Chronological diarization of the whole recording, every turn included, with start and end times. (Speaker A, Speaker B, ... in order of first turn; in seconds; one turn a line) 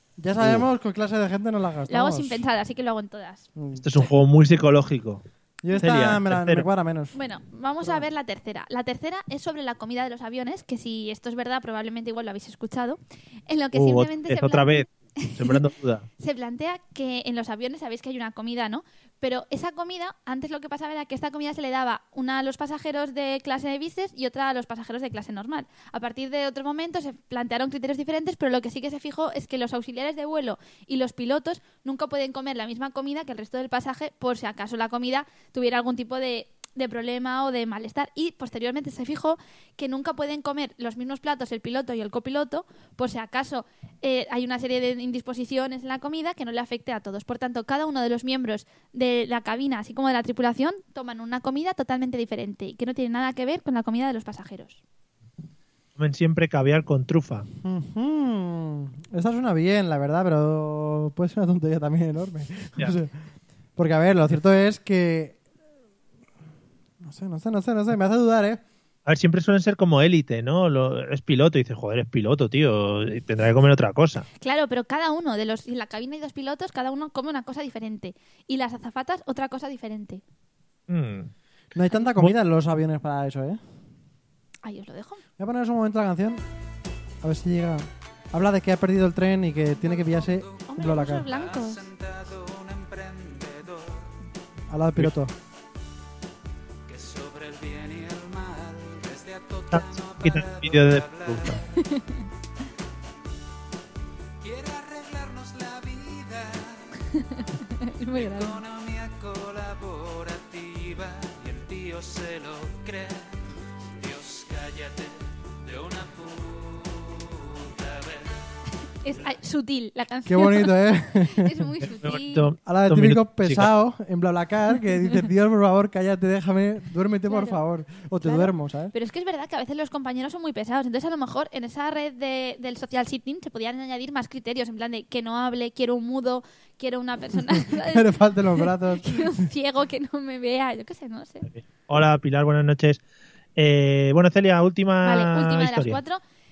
Speaker A: 0.2-2.4
Speaker B: 0.4-0.7
Speaker C: 1.9-3.5
Speaker A: 3.5-3.9
Speaker B: 3.8-6.6
Speaker A: 5.6-7.2
Speaker C: 7.1-15.6
Speaker B: 13.7-16.1
Speaker C: 16.2-54.8
Speaker B: 56.0-57.5
Speaker A: 57.6-63.1
Speaker A: 63.8-65.4
Speaker A: 67.0-68.6
Speaker B: 69.0-74.3
Speaker C: 74.4-80.2
Speaker B: 80.9-81.3
Speaker A: 81.7-83.6
Speaker C: 84.6-85.2
Speaker A: 85.4-86.4
Speaker A: 87.2-91.3
Speaker D: 89.7-94.1
Speaker C: 90.7-91.8
Speaker A: 94.7-95.3
Speaker D: 96.9-101.8
Speaker B: 99.7-101.6
Speaker C: 101.8-102.2
Speaker D: 104.4-107.0
Speaker C: 107.1-108.6
Speaker D: 108.1-113.4
Speaker D: 114.0-118.3
Speaker C: 119.0-122.5
Speaker A: 120.3-121.6
Speaker B: 121.8-123.7
Speaker A: 122.7-128.9
Speaker C: 127.3-127.6
Speaker C: 128.2-141.4
Speaker A: 137.8-139.4
Speaker B: 141.5-143.0
Speaker B: 143.6-146.0
Speaker C: 145.0-146.2